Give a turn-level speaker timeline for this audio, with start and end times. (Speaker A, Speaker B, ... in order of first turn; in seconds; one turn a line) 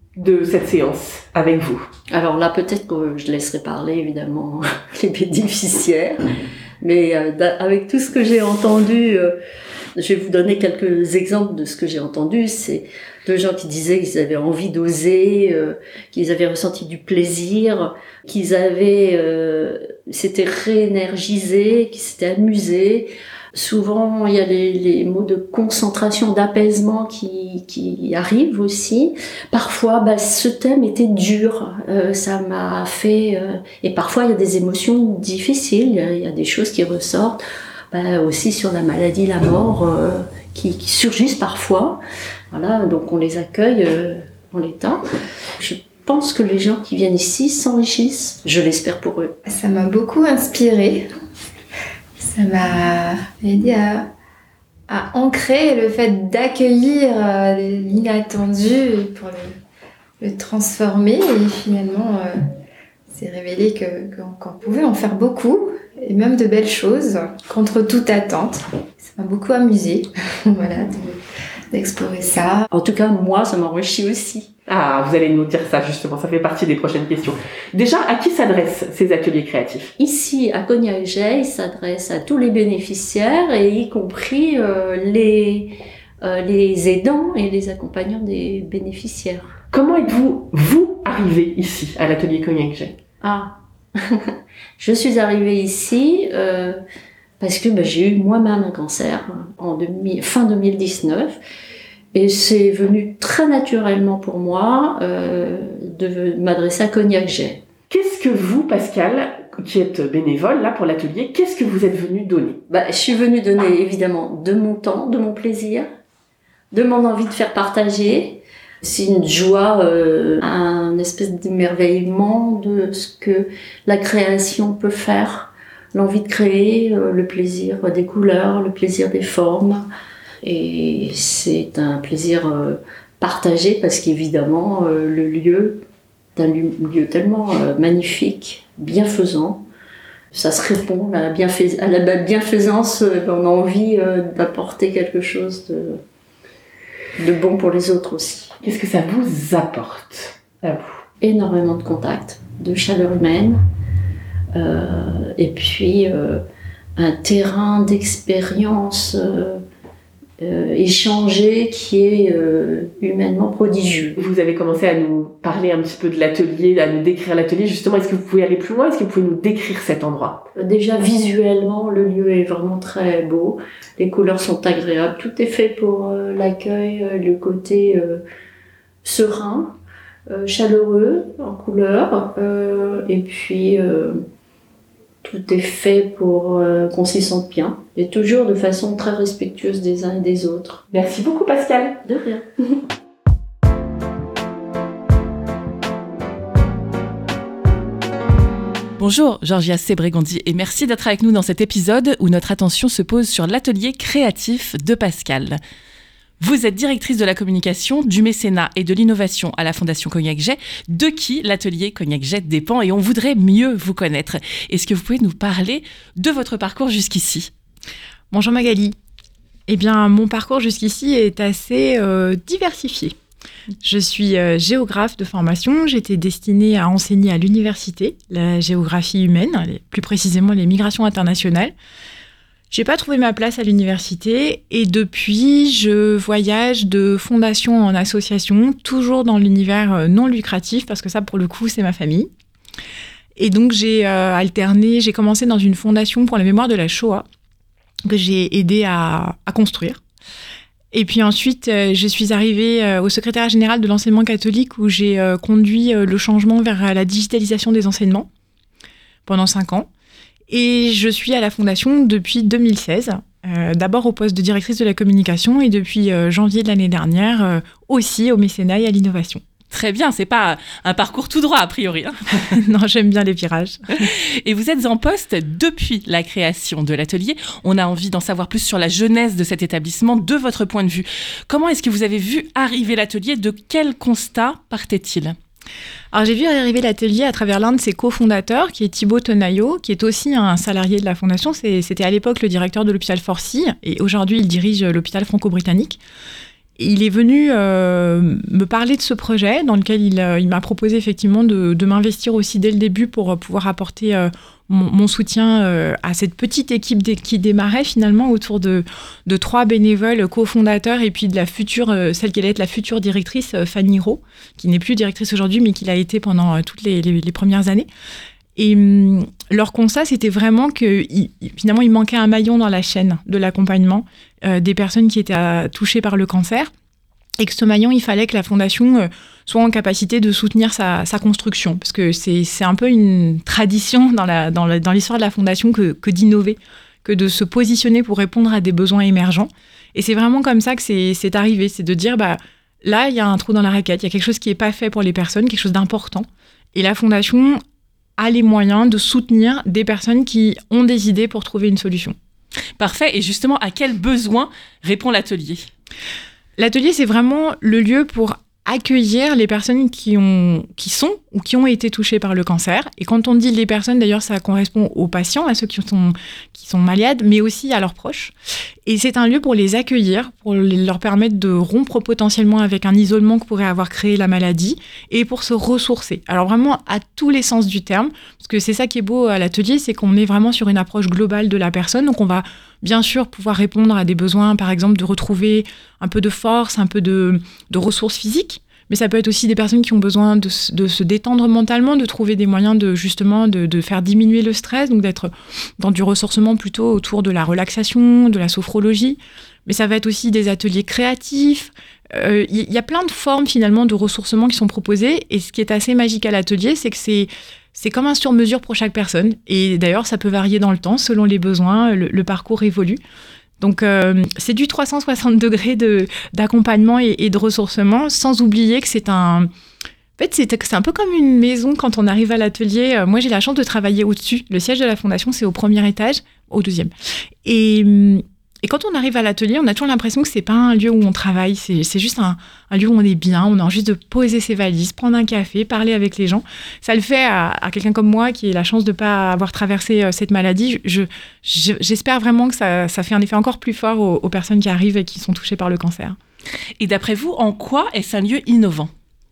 Speaker A: 0.2-1.9
Speaker B: 2.1-6.2
Speaker B: 6.8-9.4
Speaker B: 10.0-37.4
Speaker B: 37.9-45.0
Speaker B: 45.6-49.4
Speaker C: 49.5-51.1
Speaker C: 52.2-54.1
Speaker C: 54.9-59.6
Speaker C: 60.2-62.4
Speaker C: 63.1-71.2
Speaker C: 71.7-72.6
Speaker B: 72.7-74.5
Speaker A: 74.7-79.9
Speaker B: 80.0-89.6
Speaker A: 89.7-93.0
Speaker B: 93.2-96.8
Speaker B: 97.4-101.4
Speaker B: 102.1-107.6
Speaker A: 107.9-112.6
Speaker B: 112.7-115.9
Speaker B: 116.7-129.9
Speaker B: 130.4-135.8
Speaker B: 136.4-139.6
Speaker B: 140.3-146.0
Speaker B: 147.2-148.5
Speaker A: 148.6-151.0
Speaker B: 151.2-153.6
Speaker B: 154.6-156.4
Speaker B: 157.0-159.6
Speaker B: 160.4-164.2
Speaker A: 164.2-170.5
Speaker B: 170.6-178.2
Speaker B: 179.0-179.8
Speaker B: 180.3-184.2
Speaker B: 185.2-190.8
Speaker A: 190.9-192.0
Speaker B: 192.0-192.5
Speaker D: 199.0-205.6
Speaker D: 206.4-217.5
Speaker E: 218.3-219.0
Speaker E: 219.7-223.2
Speaker E: 223.8-231.7
Speaker E: 232.7-242.3
Speaker E: 243.4-247.3
Speaker E: 248.1-250.0
Speaker E: 250.9-258.3
Speaker E: 259.3-259.9
Speaker E: 260.5-269.4
Speaker D: 269.7-272.6
Speaker E: 272.5-273.9
Speaker D: 274.1-285.4
Speaker E: 286.1-296.0
Speaker E: 296.8-317.9
Speaker E: 318.6-326.7
Speaker E: 327.4-347.6
Speaker E: 348.2-352.2
Speaker D: 352.8-355.7
Speaker E: 356.6-368.3
Speaker E: 368.9-413.0
Speaker E: 413.6-419.5
Speaker E: 420.2-426.9
Speaker E: 427.4-446.2
Speaker D: 446.8-448.9